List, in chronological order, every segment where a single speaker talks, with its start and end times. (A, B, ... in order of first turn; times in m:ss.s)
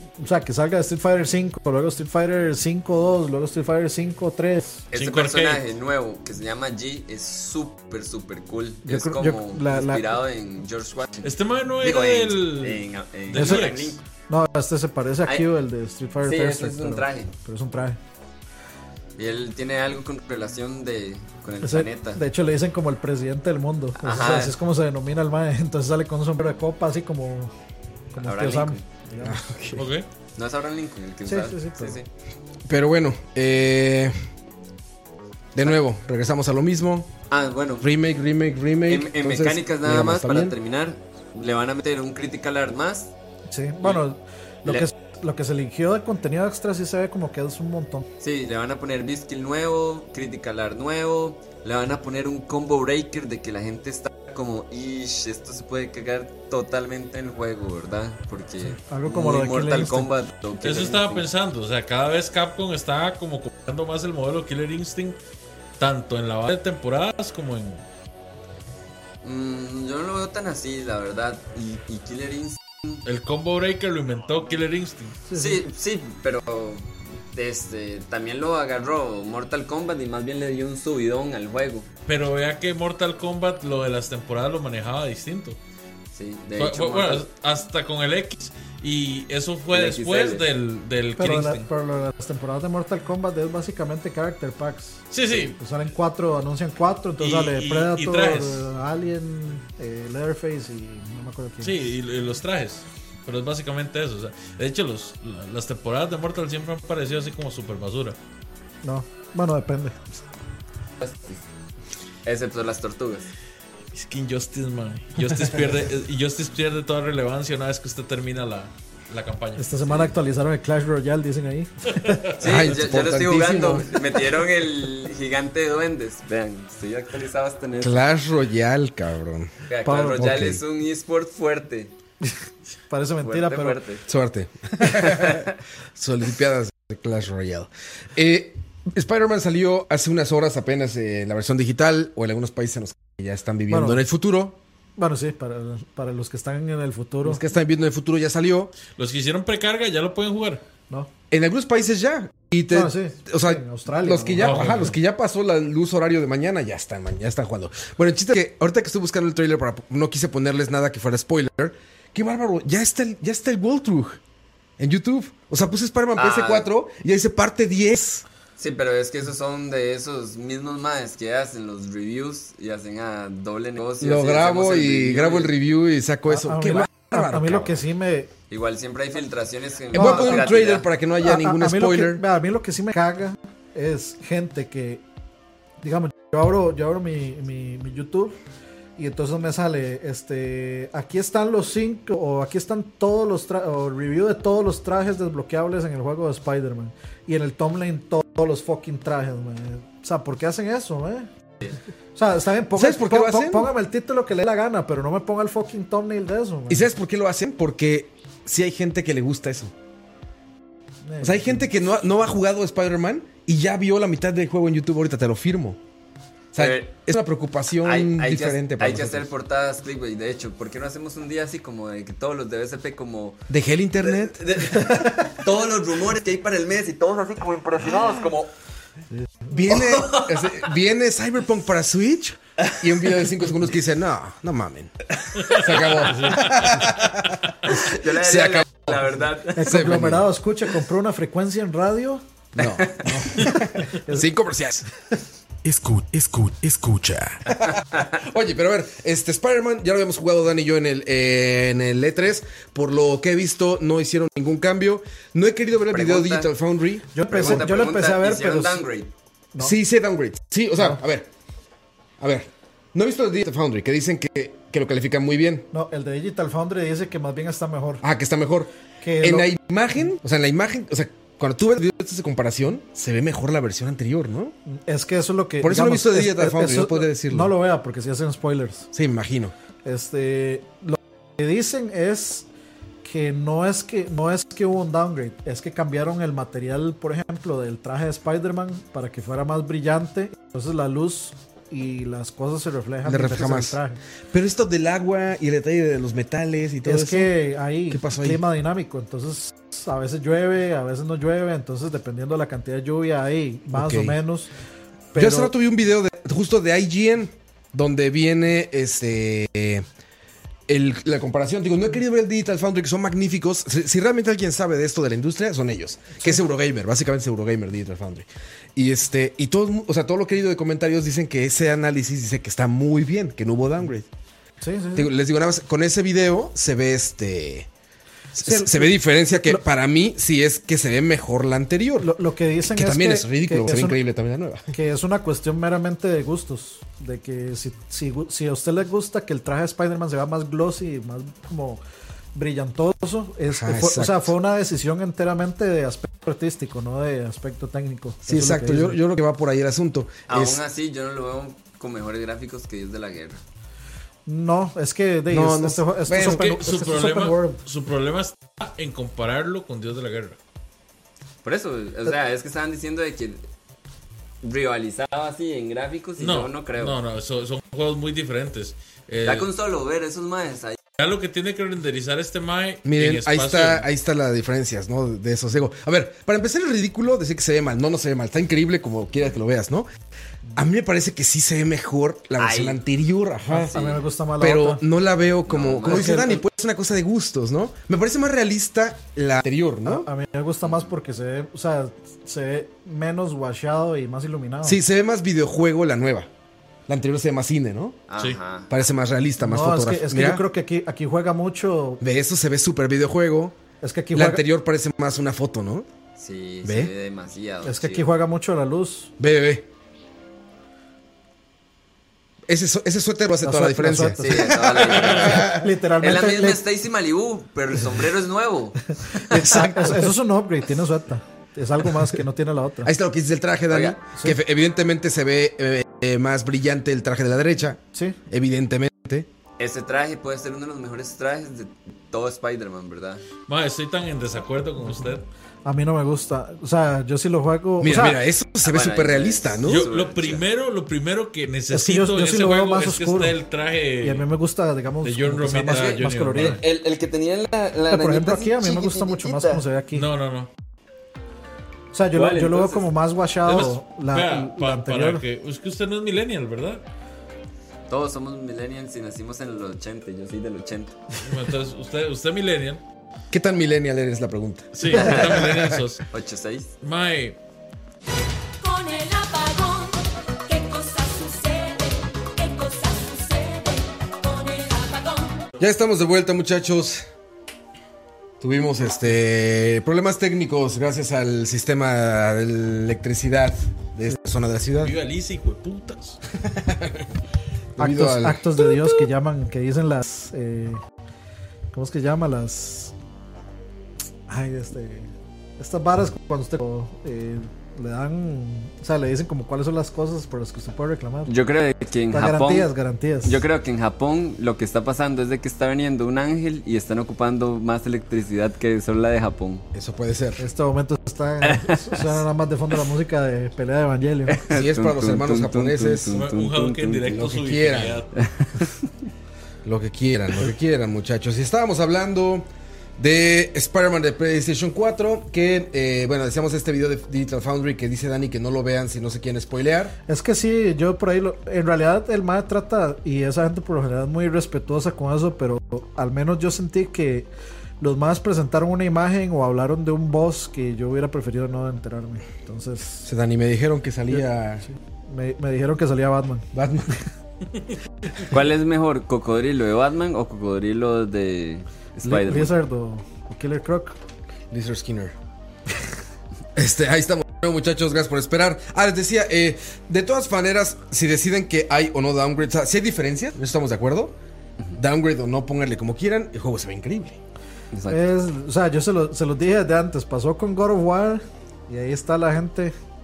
0:00.2-0:04.8 A
0:04.9-0:14.0 B
0:04.9-0:05.6 C
0:08.8-0:10.2 A
0:11.2-0:14.0 C
0:13.3-0:18.0 A
0:16.2-0:17.3 B
0:19.2-0:22.2 B
0:21.6-0:27.5 A
0:24.0-0:24.5 B
0:28.1-0:29.5 A
0:28.2-0:28.8 B
0:29.2-0:29.9 D
0:29.7-0:30.0 C
0:30.4-0:32.1 B
0:31.2-0:32.0 A
0:32.7-0:34.2 D
0:35.5-0:37.1 D
0:37.3-0:37.9 B
0:37.8-0:40.6 D
0:38.9-0:43.1 B
0:43.5-0:48.0 A
0:48.2-1:01.3 B
0:58.6-1:00.1 A
1:00.6-1:05.2 C
1:05.8-1:07.8 C
1:09.2-1:13.0 B
1:13.0-1:15.2 C
1:15.3-1:15.6 A
1:15.3-1:21.9 B
1:22.0-1:25.6 C
1:26.1-1:27.3 B
1:26.6-1:31.7 C
1:29.7-1:30.4 B
1:31.2-1:41.8 A
1:35.1-1:35.6 C
1:37.2-1:38.6 C
1:41.6-1:48.2 C
1:48.8-1:50.2 A
1:51.0-1:51.4 B
1:52.2-1:53.3 B
1:53.9-2:00.1 C
1:59.6-2:02.3 A
2:02.0-2:02.5 C
2:02.4-2:08.0 B
2:02.4-2:04.2 D
2:07.8-2:10.6 D
2:09.7-2:11.9 B
2:09.8-2:10.5 A
2:12.9-2:13.8 A
2:13.2-2:14.0 B
2:14.1-2:24.6 D
2:14.8-2:15.5 B
2:23.7-2:24.0 A
2:25.0-2:27.4 A
2:27.2-2:28.7 D
2:29.0-2:30.6 C
2:31.3-2:44.2 D
2:32.7-2:34.9 A
2:34.4-2:34.9 C
2:44.8-2:48.2 D
2:46.2-2:46.7 B
2:48.6-2:55.5 B
2:54.0-2:57.8 D
2:56.3-2:58.3 A
2:58.5-3:00.9 B
2:59.9-3:02.2 D
2:59.9-3:00.5 A
3:01.2-3:05.0 A
3:05.8-3:08.4 A
3:09.0-3:21.3 A
3:22.1-3:26.9 A
3:22.8-3:23.7 D
3:26.7-3:29.7 D
3:31.0-3:31.6 A
3:31.2-3:35.8 D
3:36.5-3:39.3 D
3:36.6-3:36.9 B
3:37.8-3:43.4 B
3:43.5-3:44.4 D
3:44.0-3:48.5 B
3:44.8-3:45.1 A
3:49.2-3:49.5 A
3:49.5-4:00.3 D
3:49.6-3:50.6 B
3:52.7-3:53.3 B
3:55.2-3:56.3 B
3:55.4-3:57.1 C
3:57.7-4:00.0 B
3:59.5-4:02.2 A
4:02.5-4:04.8 D
4:02.6-4:03.4 B
4:03.5-4:04.3 A
4:05.6-4:17.6 D
4:15.9-4:16.5 B
4:17.1-4:18.8 A
4:17.3-4:19.1 B
4:19.6-4:21.3 D
4:22.2-4:25.7 D
4:25.7-4:28.0 A
4:28.0-4:34.5 D
4:29.0-4:29.5 A
4:34.6-4:38.9 A
4:35.6-4:37.5 D
4:38.9-4:39.5 D
4:39.8-4:42.4 A
4:43.0-4:54.0 A
4:53.0-4:53.8 D
4:54.3-4:57.4 D
4:56.8-5:04.5 A
4:57.9-4:58.4 D
5:03.7-5:04.2 D
5:05.1-5:05.5 A
5:05.1-5:09.8 D
5:10.7-5:24.1 D
5:24.6-5:25.1 A
5:25.0-5:27.7 D
5:28.3-5:34.7 D
5:28.3-5:29.6 A
5:32.0-5:34.0 A
5:34.7-5:41.8 A
5:42.3-5:49.0 A
5:43.5-5:44.3 D
5:48.2-5:50.6 D
5:50.3-5:53.4 B
5:54.3-5:57.6 A
5:55.3-5:56.9 D
5:56.1-6:00.4 C
6:01.4-6:03.4 B
6:04.4-6:07.0 B
6:06.2-6:09.5 C
6:09.2-6:10.8 B
6:11.0-6:13.8 C
6:12.8-6:19.9 D
6:20.5-6:23.8 D
6:22.4-6:22.8 B
6:23.5-6:24.8 A
6:23.5-6:24.0 B
6:24.4-6:30.1 D
6:25.5-6:26.4 B
6:25.8-6:26.4 A
6:29.8-6:34.8 A
6:34.6-6:36.3 D
6:36.9-6:38.0 D
6:38.1-6:38.7 B
6:38.7-6:40.4 D
6:39.4-6:42.0 A
6:42.0-6:43.6 D
6:43.8-6:44.4 A
6:44.1-6:45.9 D
6:46.2-6:48.0 B
6:46.6-6:46.9 D
6:47.6-6:49.1 A
6:49.2-6:49.7 D
6:52.5-6:55.7 D
6:53.4-6:56.6 A
6:54.2-7:00.1 B
6:59.1-7:02.9 A
7:02.8-7:09.3 D
7:03.7-7:04.0 B
7:09.6-7:13.2 B
7:13.5-7:15.2 C
7:14.8-7:15.1 A
7:15.6-7:18.2 A
7:17.8-7:19.9 D
7:18.6-7:20.4 B
7:19.6-7:24.3 C
7:21.7-7:23.4 A
7:24.0-7:26.6 A
7:25.0-7:26.6 C
7:25.7-7:29.6 B
7:27.9-7:30.0 A
7:29.9-7:30.5 C
7:31.9-7:35.2 A
7:32.1-7:32.9 B
7:33.4-7:36.8 C
7:37.9-7:41.0 B
7:41.2-7:42.8 C
7:43.3-7:45.8 D
7:44.7-7:46.0 C
7:44.9-7:45.4 B
7:46.1-7:46.7 B
7:46.8-7:47.4 C
7:48.6-7:55.4 E
7:55.6-7:57.0 D
7:58.4-8:05.0 D
8:04.8-8:06.2 C
8:06.4-8:07.1 D
8:07.8-8:08.7 D
8:07.8-8:10.8 A
8:11.7-8:12.9 A
8:14.3-8:21.3 A
8:21.3-8:22.7 B
8:22.1-8:23.4 A
8:23.2-8:29.7 B
8:29.7-8:30.4 D
8:30.4-8:34.4 A
8:31.4-8:32.2 B
8:34.3-8:37.2 B
8:34.5-8:36.2 D
8:36.1-8:38.1 C
8:37.0-8:38.0 D
8:38.2-8:38.9 B
8:39.6-8:49.9 D
8:50.1-8:57.3 A
8:57.8-9:03.1 A
9:03.0-9:04.6 D
9:04.1-9:06.5 A
9:06.5-9:07.0 D
9:08.3-9:12.5 B
9:12.0-9:13.9 A
9:14.5-9:15.1 D
9:16.5-9:24.1 D
9:24.8-9:27.2 D
9:27.7-9:28.0 B
9:27.9-9:32.7 A